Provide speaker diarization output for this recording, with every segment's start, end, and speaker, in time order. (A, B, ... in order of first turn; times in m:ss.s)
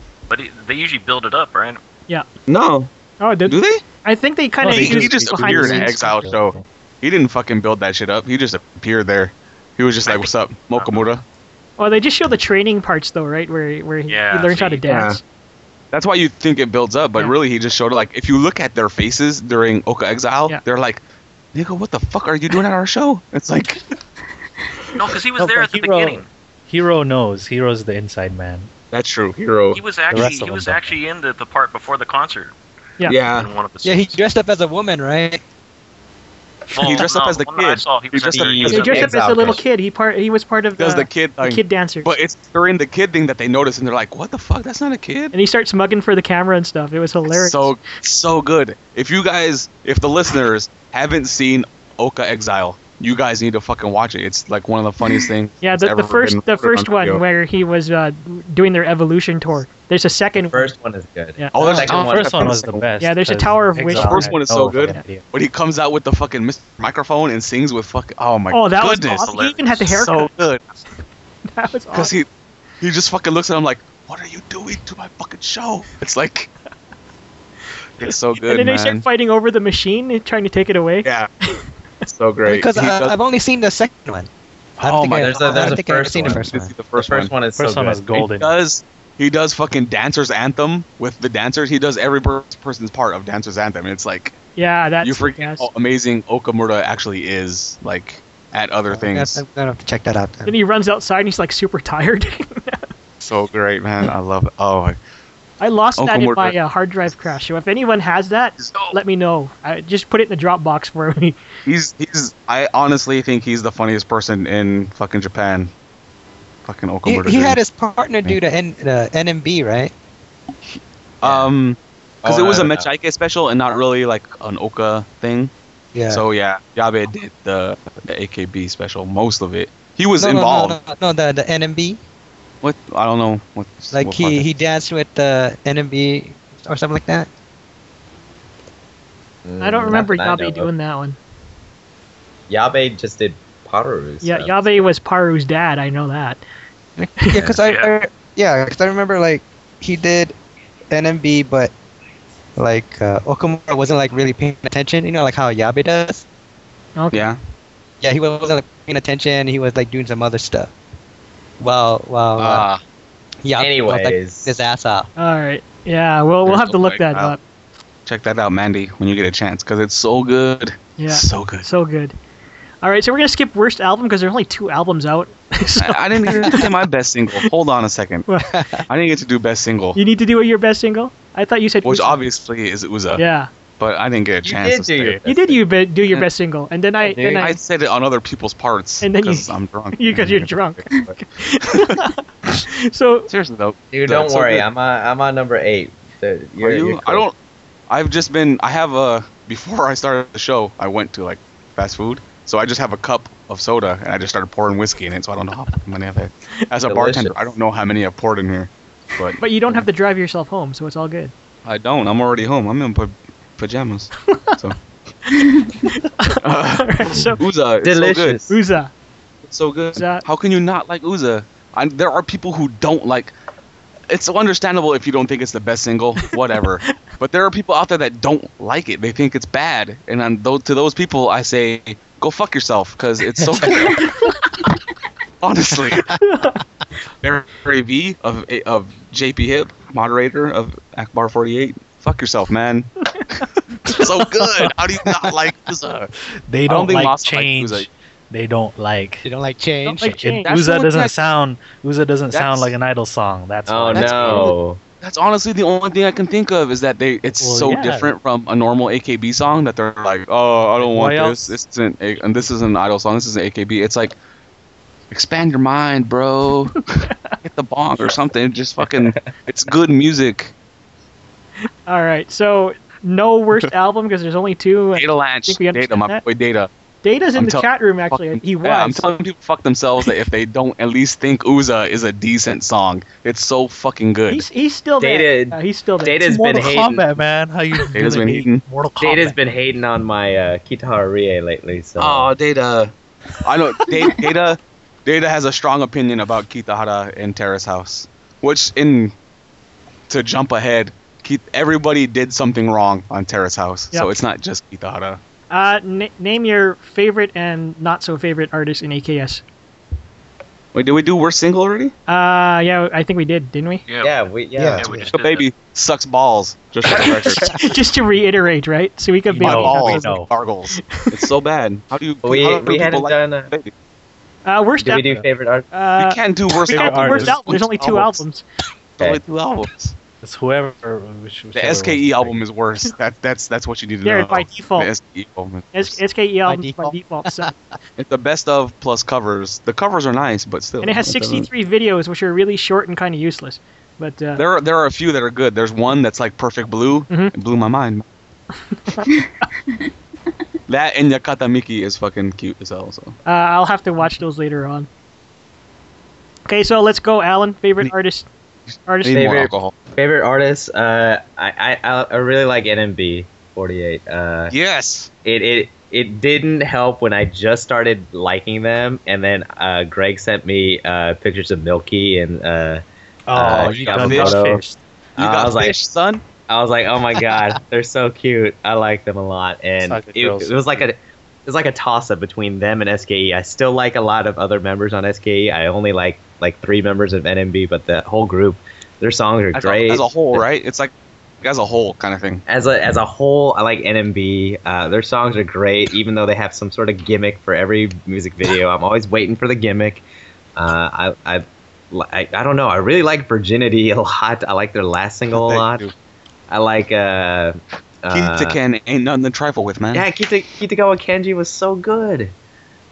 0:00.3-0:01.8 A
0:02.5-0:02.9 B
0:03.2-0:06.1 C
0:03.5-0:03.8 B
0:04.6-0:06.6 D
0:04.6-0:11.2 B
0:10.1-0:11.1 A
0:11.8-0:15.2 C
0:14.1-0:14.9 A
0:14.9-0:15.2 B
0:15.9-0:21.0 B
0:21.5-0:23.8 B
0:25.0-0:26.3 A
0:25.4-0:28.7 D
0:28.9-0:29.8 B
0:29.7-0:32.5 A
0:30.1-0:31.0 D
0:30.1-0:30.4 E
0:33.1-0:33.5 B
0:33.1-0:34.2 A
0:33.8-0:35.4 E
0:36.7-0:39.1 A
0:36.8-0:39.1 B
0:38.3-0:39.6 F
0:38.7-0:42.1 C
0:40.8-0:45.3 B
0:45.3-0:47.8 C
0:47.3-0:57.2 B
0:55.0-1:00.7 C
1:00.5-1:02.6 F
1:01.5-1:02.8 B
1:01.7-1:05.2 D
1:03.0-1:04.4 C
1:03.9-1:10.7 B
1:08.5-1:10.3 C
1:09.1-1:09.8 A
1:11.5-1:12.1 C
1:11.9-1:12.3 B
1:12.8-1:16.5 B
1:18.0-1:19.0 B
1:18.4-1:21.7 C
1:21.0-1:21.3 B
1:22.1-1:23.2 B
1:22.4-1:26.8 E
1:24.8-1:27.4 B
1:25.2-1:28.1 F
1:27.6-1:28.5 D
1:28.1-1:34.4 B
1:34.6-1:35.7 C
1:35.0-1:39.4 B
1:38.9-1:40.6 E
1:40.5-1:42.9 C
1:43.2-1:45.0 B
1:45.6-1:51.4 C
1:46.0-1:46.6 B
1:48.6-1:49.0 B
1:51.7-1:55.7 B
1:56.6-1:57.6 B
1:57.0-1:59.9 E
2:00.7-2:05.5 B
2:02.2-2:02.9 F
2:05.9-2:06.2 E
2:06.1-2:10.8 B
2:10.2-2:12.0 E
2:12.6-2:14.5 B
2:13.9-2:17.3 E
2:19.4-2:20.7 F
2:19.6-2:21.2 C
2:22.5-2:24.8 F
2:24.2-2:26.4 C
2:27.0-2:30.4 E
2:27.6-2:27.9 A
2:30.9-2:31.7 E
2:32.6-2:36.2 E
2:37.0-2:37.3 C
2:37.1-2:37.4 B
2:38.0-2:40.7 E
2:41.6-2:42.7 E
2:42.4-2:42.8 B
2:43.4-2:45.1 E
2:43.6-2:44.6 F
2:45.2-2:47.4 C
2:46.4-2:47.4 B
2:48.1-2:51.7 B
2:51.0-2:52.2 C
2:52.8-2:56.7 C
2:55.8-2:58.3 B
2:58.5-2:58.8 E
2:58.9-3:00.0 B
3:00.0-3:02.3 C
3:01.8-3:03.2 B
3:03.1-3:03.5 C
3:03.8-3:05.2 B
3:04.4-3:05.6 F
3:05.2-3:07.6 C
3:07.2-3:11.2 B
3:09.0-3:13.3 C
3:11.7-3:12.0 B
3:13.3-3:14.7 B
3:13.9-3:17.2 F
3:16.6-3:17.4 B
3:17.9-3:29.8 B
3:26.9-3:27.4 F
3:29.4-3:31.3 C
3:31.6-3:34.8 B
3:35.3-3:37.4 C
3:36.4-3:38.4 B
3:37.8-3:38.6 F
3:38.5-3:38.9 C
3:39.4-3:43.3 B
3:39.9-3:40.3 C
3:44.1-3:54.1 B
3:54.0-3:54.4 C
3:55.4-3:56.1 B
3:56.2-3:56.6 C
3:57.2-4:06.1 B
4:04.4-4:04.7 D
4:06.5-4:09.3 D
4:06.7-4:07.9 B
4:09.2-4:10.2 E
4:09.9-4:10.5 C
4:10.0-4:14.5 D
4:10.4-4:11.3 B
4:12.3-4:12.7 B
4:13.7-4:14.8 F
4:14.0-4:14.5 E
4:14.1-4:14.4 B
4:15.0-4:24.2 B
4:17.4-4:18.1 D
4:20.8-4:21.5 D
4:25.1-4:30.5 B
4:28.8-4:29.3 F
4:31.9-4:36.2 C
4:35.0-4:36.7 B
4:37.0-4:39.1 C
4:37.4-4:44.5 B
4:44.3-4:46.4 C
4:45.0-4:47.0 F
4:46.2-4:49.4 D
4:47.9-4:48.6 B
4:49.0-4:52.3 F
4:52.0-4:52.9 B
4:53.4-4:59.1 B
5:00.1-5:05.2 B
5:05.5-5:09.4 C
5:10.7-5:11.9 B
5:12.1-5:13.8 C
5:13.9-5:14.1 A
5:14.0-5:14.9 F
5:14.6-5:15.1 E
5:14.8-5:15.5 A
5:15.1-5:17.5 B
5:17.0-5:20.1 C
5:19.3-5:20.3 D
5:19.3-5:23.7 B
5:21.0-5:21.2 C
5:22.2-5:23.5 F
5:24.4-5:25.1 C
5:24.8-5:25.7 F
5:25.7-5:28.4 C
5:26.0-5:28.2 B
5:26.7-5:27.7 D
5:29.0-5:30.0 B
5:30.2-5:32.4 D
5:31.6-5:36.0 B
5:34.0-5:34.9 C
5:35.7-5:37.5 C
5:36.5-5:37.6 E
5:38.0-5:41.5 B
5:40.8-5:44.4 C
5:44.4-5:48.0 B
5:48.7-5:49.2 C
5:50.7-5:53.2 B
5:53.3-5:54.9 C
5:56.5-5:58.3 C
5:58.9-5:59.3 C
5:59.0-5:59.8 B
5:59.1-6:04.6 F
6:04.5-6:05.1 B
6:05.2-6:12.8 F
6:13.3-6:14.8 D
6:13.3-6:14.6 F
6:13.5-6:14.5 B
6:15.2-6:15.8 F
6:15.2-6:16.2 B
6:16.5-6:30.5 F
6:19.8-6:20.6 D
6:29.5-6:32.4 B
6:32.5-6:40.0 F
6:40.6-6:45.8 F
6:45.3-6:45.9 B
6:46.5-6:48.6 F
6:48.1-6:50.1 B
6:49.9-6:52.3 F